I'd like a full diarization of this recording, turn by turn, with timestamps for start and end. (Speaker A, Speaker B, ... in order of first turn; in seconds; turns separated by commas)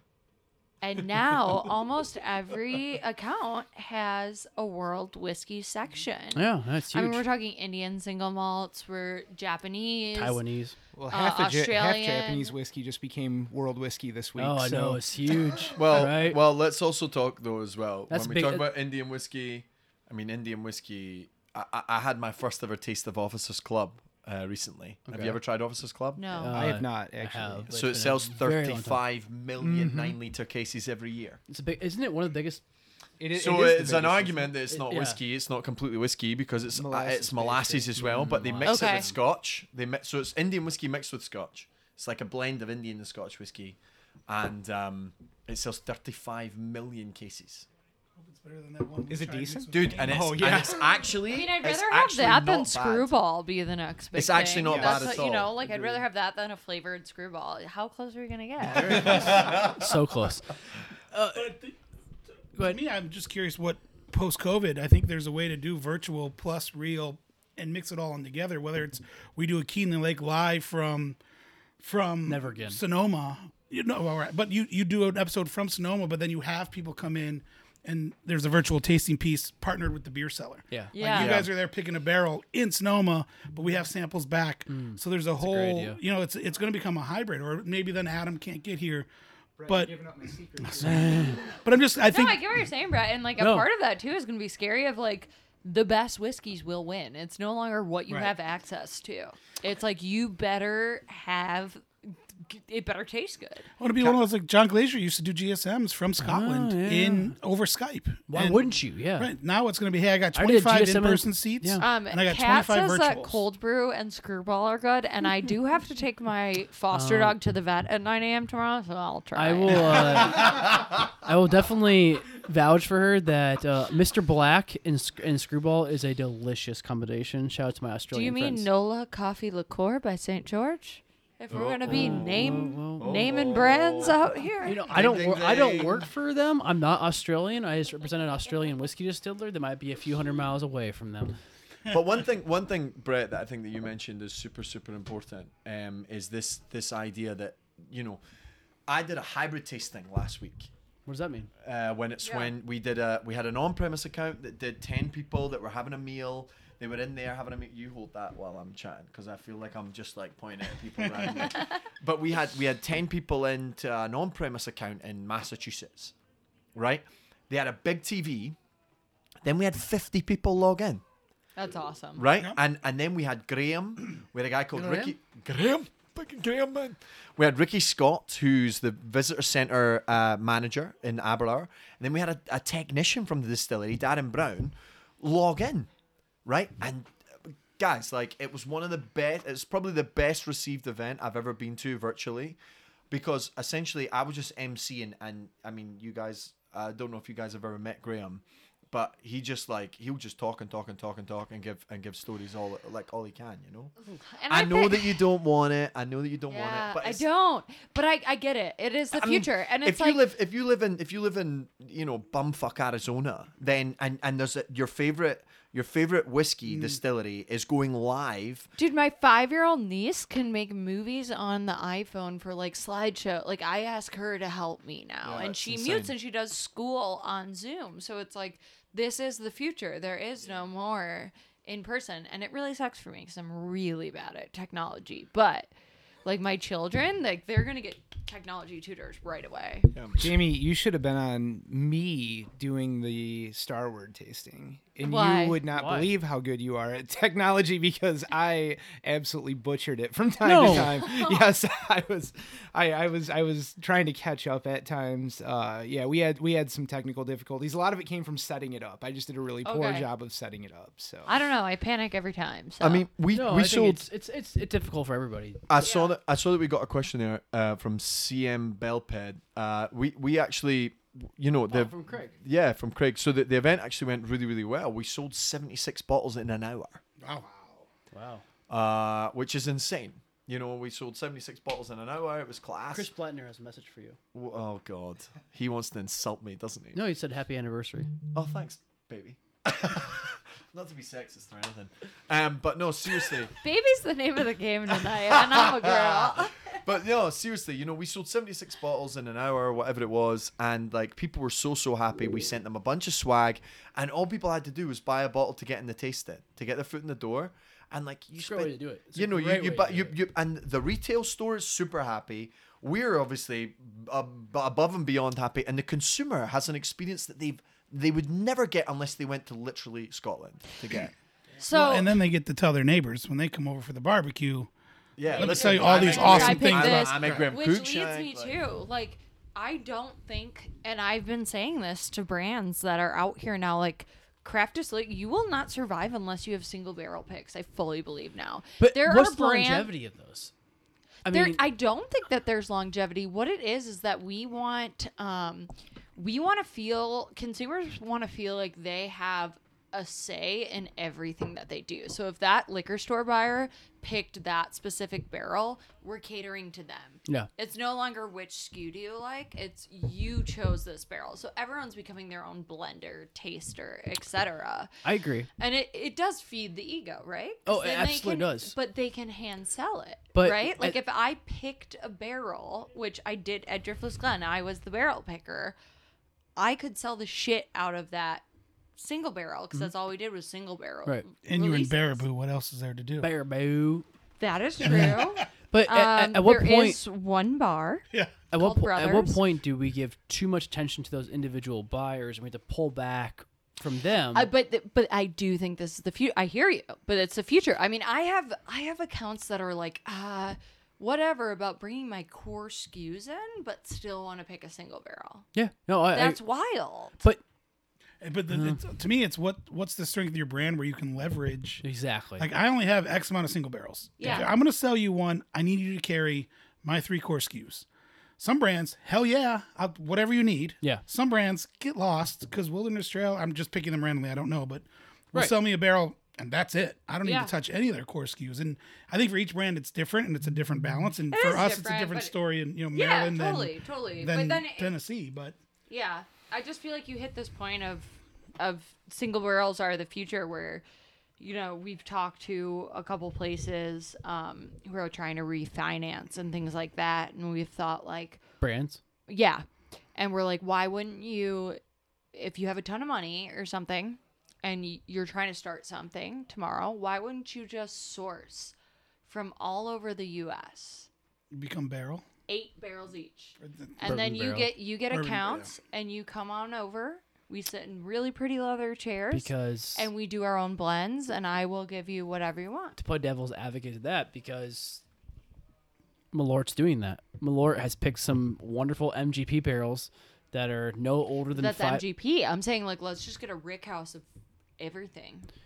Speaker A: 0.8-10.4, Speaker B: 6.3-7.2, Speaker B: 10.1-10.8, Speaker C: 10.9-15.7, Speaker A: 11.1-12.5, Speaker B: 14.3-16.4, Speaker D: 15.7-26.2, Speaker B: 18.1-18.7, Speaker B: 25.1-25.4, Speaker A: 26.2-26.7, Speaker B: 26.4-29.0, Speaker C: 26.5-27.7, Speaker D: 27.7-31.4, Speaker C: 29.6-30.1, Speaker B: 31.5-32.6, Speaker C: 33.2-34.6, Speaker D: 33.3-47.7, Speaker B: 34.7-35.2, Speaker C: 36.7-38.4, Speaker B: 38.0-39.1, Speaker A: 38.6-39.1, Speaker E: 48.2-50.2, Speaker C: 49.1-51.1, Speaker D: 49.7-53.1, Speaker A: 51.3-59.5, Speaker D: 54.1-55.5, Speaker C: 54.6-56.0, Speaker D: 58.7-59.9, Speaker B: 58.7-60.5, Speaker B: 61.1-61.5, Speaker E: 61.3-61.8, Speaker E: 62.6-71.2, Speaker E: 71.8-89.1, Speaker B: 72.2-72.8, Speaker B: 80.7-81.4, Speaker A: 80.9-81.4, Speaker B: 84.7-86.0, Speaker C: 89.6-91.5, Speaker E: 89.7-90.0, Speaker E: 90.6-92.5, Speaker B: 90.8-91.4, Speaker A: 92.0-103.7, Speaker B: 93.4-93.7, Speaker E: 103.8-113.4, Speaker B: 106.2-107.3, Speaker B: 108.3-109.3, Speaker B: 110.3-111.9, Speaker A: 111.8-120.3, Speaker B: 116.9-117.4, Speaker B: 119.3-128.7, Speaker A: 128.1-134.8, Speaker D: 131.5-134.2, Speaker B: 131.9-133.1, Speaker B: 134.6-141.4, Speaker D: 134.8-136.1, Speaker D: 141.9-148.2, Speaker D: 148.9-150.7, Speaker B: 151.1-151.5, Speaker D: 151.6-166.1, Speaker A: 152.2-152.5, Speaker D: 166.7-168.6, Speaker D: 169.4-171.0, Speaker A: 171.6-172.2, Speaker D: 172.2-185.9, Speaker B: 174.7-175.2, Speaker D: 186.4-192.6, Speaker D: 193.1-203.9, Speaker A: 204.0-205.2, Speaker D: 204.5-207.2, Speaker A: 206.5-210.2, Speaker D: 209.1-218.7, Speaker A: 218.8-235.7, Speaker D: 225.2-226.1, Speaker A: 236.2-239.9, Speaker D: 239.9-240.3, Speaker C: 240.2-261.3, Speaker A: 245.0-245.6, Speaker B: 245.7-246.1, Speaker B: 250.4-250.9, Speaker A: 250.6-251.5, Speaker A: 259.6-260.1, Speaker A: 261.2-263.1, Speaker D: 262.8-264.1, Speaker B: 263.3-265.6, Speaker D: 265.7-277.0, Speaker A: 265.8-266.1, Speaker B: 271.7-272.3, Speaker E: 277.2-277.8, Speaker B: 278.1-278.4, Speaker D: 278.7-283.1, Speaker B: 282.9-284.2, Speaker D: 284.3-287.0, Speaker B: 286.9-288.1, Speaker D: 288.3-293.5, Speaker A: 293.6-296.8, Speaker D: 295.2-321.1, Speaker B: 308.4-310.1, Speaker E: 321.6-324.7, Speaker A: 321.6-322.2, Speaker D: 325.2-328.6, Speaker E: 325.3-327.5, Speaker A: 325.3-339.9, Speaker B: 338.8-340.5, Speaker B: 341.2-341.6, Speaker A: 341.3-364.9, Speaker B: 365.0-365.5, Speaker A: 365.6-375.8, Speaker B: 367.6-368.7, Speaker B: 370.3-371.0, Speaker A: 376.6-378.4, Speaker A: 379.0-382.2, Speaker E: 381.4-383.3, Speaker B: 383.2-384.1, Speaker A: 384.4-389.4, Speaker E: 384.8-385.5, Speaker B: 384.8-387.0, Speaker B: 388.5-394.5, Speaker A: 394.3-405.5, Speaker B: 405.5-406.4, Speaker A: 406.1-407.1, Speaker E: 408.2-411.8, Speaker B: 408.5-408.8, Speaker B: 411.8-412.5, Speaker E: 412.4-417.9, Speaker A: 414.2-414.5, Speaker E: 418.4-435.5, Speaker A: 427.2-427.5, Speaker A: 431.3-432.3, Speaker A: 432.9-434.9, Speaker A: 435.9-440.8, Speaker A: 441.4-448.4, Speaker B: 448.6-449.0, Speaker A: 449.3-451.8, Speaker A: 452.3-458.7, Speaker A: 459.2-461.1, Speaker E: 461.5-462.2, Speaker A: 462.5-472.9, Speaker E: 463.6-464.1, Speaker B: 464.0-464.7, Speaker E: 465.1-465.7, Speaker B: 469.3-470.1, Speaker B: 473.0-475.0, Speaker B: 476.3-482.0, Speaker A: 481.5-484.2, Speaker A: 484.8-485.5